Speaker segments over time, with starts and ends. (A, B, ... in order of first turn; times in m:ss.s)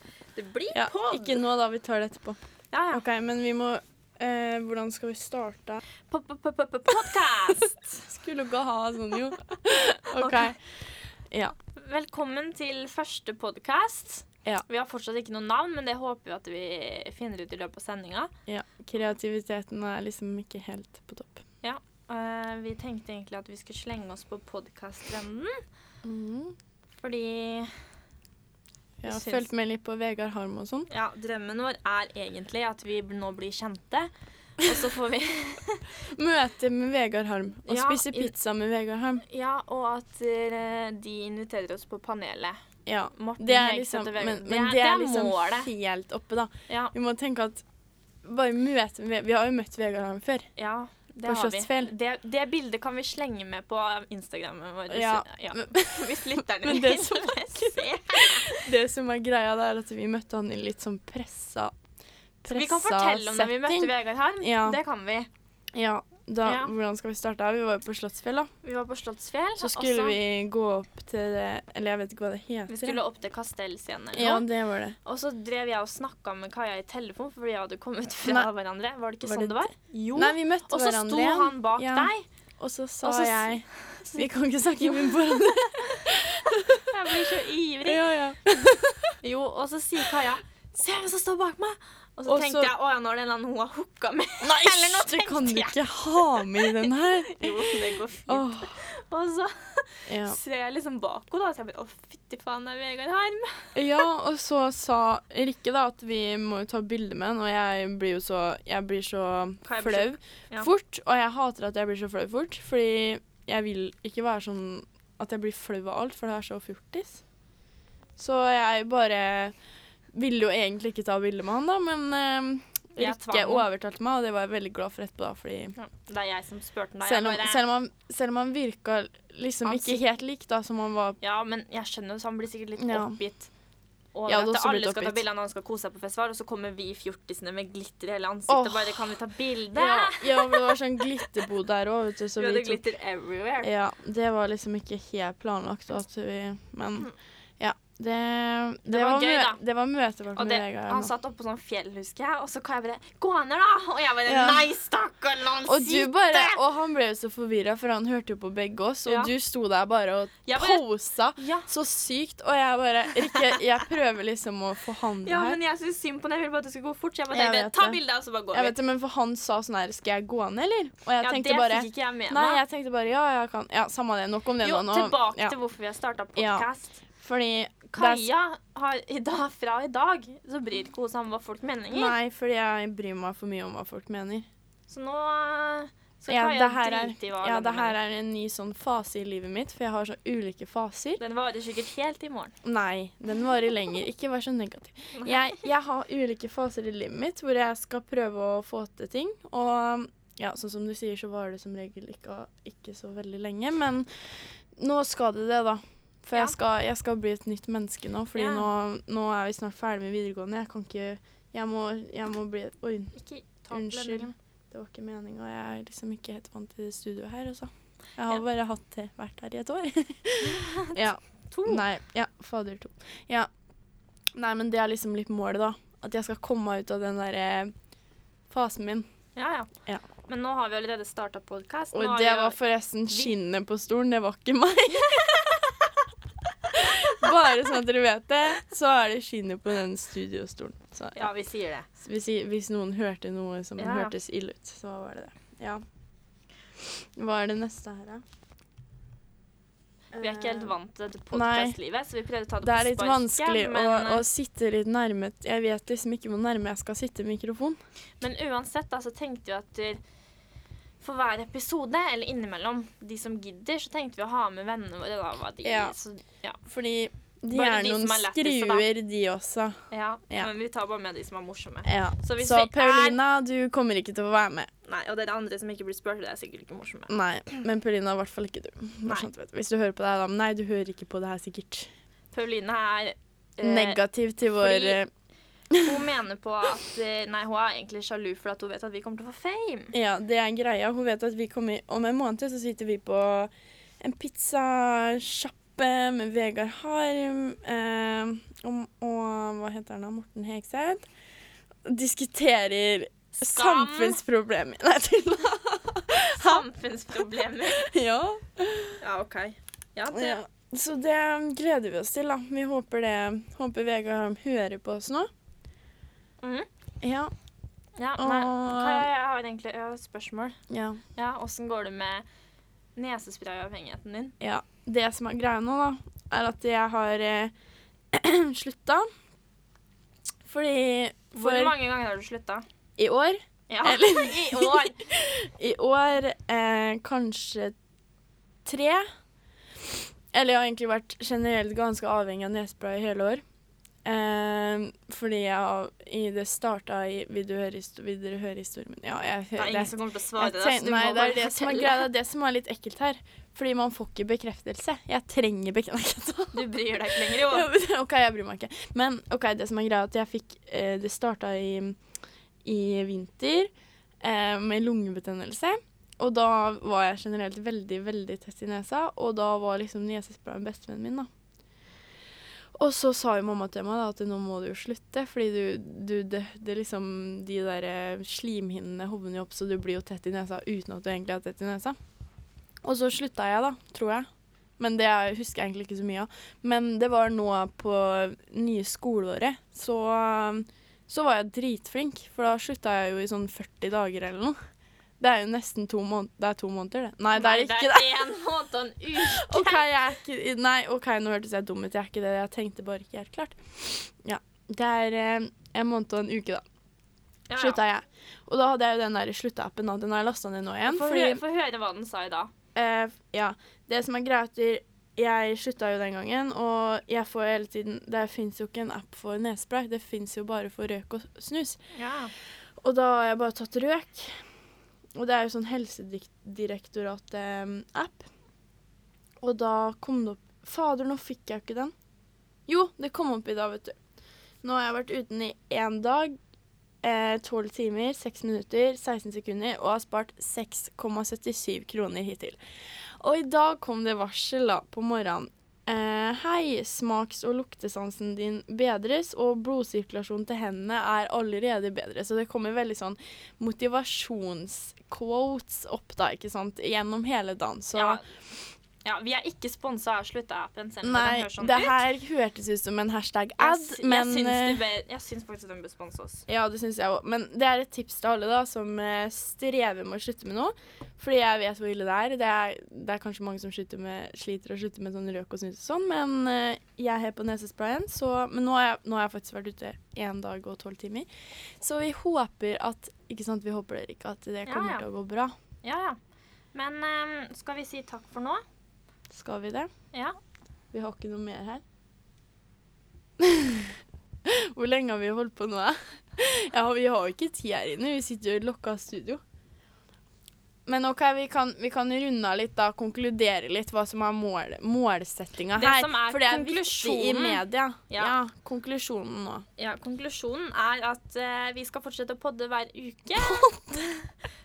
0:00.4-0:01.4 A
0:00.7-0:02.4 B
0:02.7-0:03.0 A
0:02.9-0:05.8 B
0:06.1-0:08.0 A
0:08.1-0:10.6 B
0:10.1-0:10.5 A
0:11.8-0:18.3 A
0:18.5-0:21.4 B
0:21.6-0:25.6 A
0:26.0-0:26.6 B
0:27.0-0:27.7 A
0:29.0-0:30.9 B
0:29.0-0:29.5 A
0:30.9-0:35.9 A
0:36.1-0:39.2 B
0:37.7-0:38.3 A
0:39.2-0:42.6 A
0:42.9-0:47.6 B
0:43.1-0:45.7 A
0:46.7-0:46.9 A
0:48.2-0:50.5 B
0:50.6-0:58.6 A
0:51.2-0:51.9 B
0:54.9-1:01.7 B
1:02.4-1:04.8 B
1:02.5-1:05.3 A
1:05.7-1:08.5 B
1:06.4-1:06.7 A
1:08.6-1:10.2 A
1:09.6-1:13.0 B
1:12.7-1:14.5 A
1:14.1-1:15.0 B
1:15.0-1:22.2 A
1:19.2-1:27.3 B
1:23.0-1:24.2 A
1:24.8-1:26.1 A
1:26.7-1:28.0 A
1:27.8-1:29.2 B
1:29.2-1:44.0 A
1:32.3-1:32.7 B
1:34.4-1:38.8 B
1:40.1-1:40.4 B
1:43.8-1:57.2 B
1:49.6-1:50.7 A
1:58.2-1:59.5 B
2:00.1-2:05.8 B
2:03.0-2:03.7 A
2:05.8-2:07.6 A
2:07.0-2:11.2 B
2:09.6-2:10.0 A
2:11.2-2:13.5 A
2:12.8-2:13.2 B
2:14.1-2:21.4 A
2:14.3-2:15.2 B
2:18.5-2:19.1 B
2:19.7-2:22.8 B
2:22.4-2:23.7 A
2:23.6-2:31.1 B
2:28.9-2:29.6 A
2:30.4-2:36.6 A
2:34.3-2:34.7 B
2:35.7-2:45.6 B
2:39.1-2:39.3 A
2:40.5-2:40.8 A
2:41.4-2:41.7 A
2:43.2-2:43.6 A
2:45.2-2:48.8 A
2:47.3-2:48.0 B
2:48.5-2:55.6 B
2:51.2-2:52.6 A
2:54.6-2:57.0 A
2:56.4-2:56.7 B
2:57.2-2:58.3 B
2:57.9-3:02.2 A
3:01.9-3:04.5 B
3:04.9-3:08.0 A
3:06.3-3:11.2 B
3:11.2-3:12.5 A
3:12.6-3:24.1 B
3:15.2-3:15.7 A
3:24.8-3:33.2 B
3:28.4-3:28.7 A
3:33.1-3:34.3 A
3:33.7-3:43.5 B
3:40.5-3:41.8 A
3:44.4-3:47.7 B
3:48.5-3:49.1 B
3:49.4-3:49.7 A
3:50.3-3:52.6 A
3:51.9-3:55.4 B
3:55.1-3:55.7 A
3:56.7-4:01.3 B
4:01.2-4:01.9 A
4:02.0-4:05.8 B
4:03.8-4:04.1 A
4:06.8-4:08.2 B
4:10.1-4:10.7 B
4:10.2-4:14.2 A
4:11.3-4:11.8 B
4:12.6-4:17.8 B
4:18.2-4:20.0 A
4:21.0-4:26.6 A
4:25.6-4:25.9 B
4:26.7-4:29.8 B
4:27.5-4:28.9 A
4:29.9-4:33.2 A
4:31.8-4:34.7 B
4:34.8-4:37.6 A
4:37.1-4:41.9 B
4:42.3-4:45.0 A
4:43.6-4:45.1 B
4:45.8-4:49.9 A
4:49.9-5:01.1 B
5:01.8-5:09.0 B
5:03.4-5:04.2 A
5:06.2-5:07.9 A
5:09.0-5:10.4 A
5:10.1-5:15.3 B
5:16.4-5:16.7 A
5:17.0-5:17.3 B
5:18.0-5:20.6 A
5:18.2-5:19.1 B
5:20.7-5:21.0 B
5:21.2-5:22.2 A
5:23.0-5:24.3 A
5:24.4-5:27.5 B
5:28.1-5:29.1 B
5:30.4-5:31.7 B
5:31.3-5:32.6 A
5:33.0-5:37.7 B
5:33.7-5:35.0 A
5:38.6-5:39.0 B
5:40.3-5:43.4 B
5:44.0-6:02.0 B
5:49.6-5:52.1 A
5:56.5-5:57.7 A
6:02.6-6:03.7 B
6:04.2-6:11.3 B
6:12.8-6:22.0 B
6:22.8-6:24.3 B
6:24.8-6:34.6 B
6:35.2-6:38.3 B
6:37.3-6:39.8 A
6:39.2-6:46.6 B
6:47.5-6:47.8 A
6:47.6-6:51.4 B
6:50.8-6:52.5 A
6:52.8-7:01.8 B
7:01.9-7:02.3 A
7:02.8-7:04.4 B
7:05.2-7:08.3 B
7:09.4-7:11.9 B
7:12.7-7:14.0 B
7:14.6-7:16.4 B
7:17.0-7:22.6 B
7:23.2-7:38.2 B
7:37.9-7:38.2 A
7:39.0-7:42.0 A
7:41.0-7:44.8 B
7:43.6-7:46.4 A
7:46.5-8:01.3 B
8:01.8-8:05.5 B
8:04.7-8:05.0 A
8:05.8-8:06.2 A
8:06.7-8:08.6 A
8:09.3-8:09.9 B
8:10.9-8:11.8 B
8:13.4-8:13.9 B
8:14.4-8:19.4 B
8:20.9-8:29.6 B
8:25.7-8:28.4 A
8:29.8-8:34.2 A
8:33.4-8:33.8 B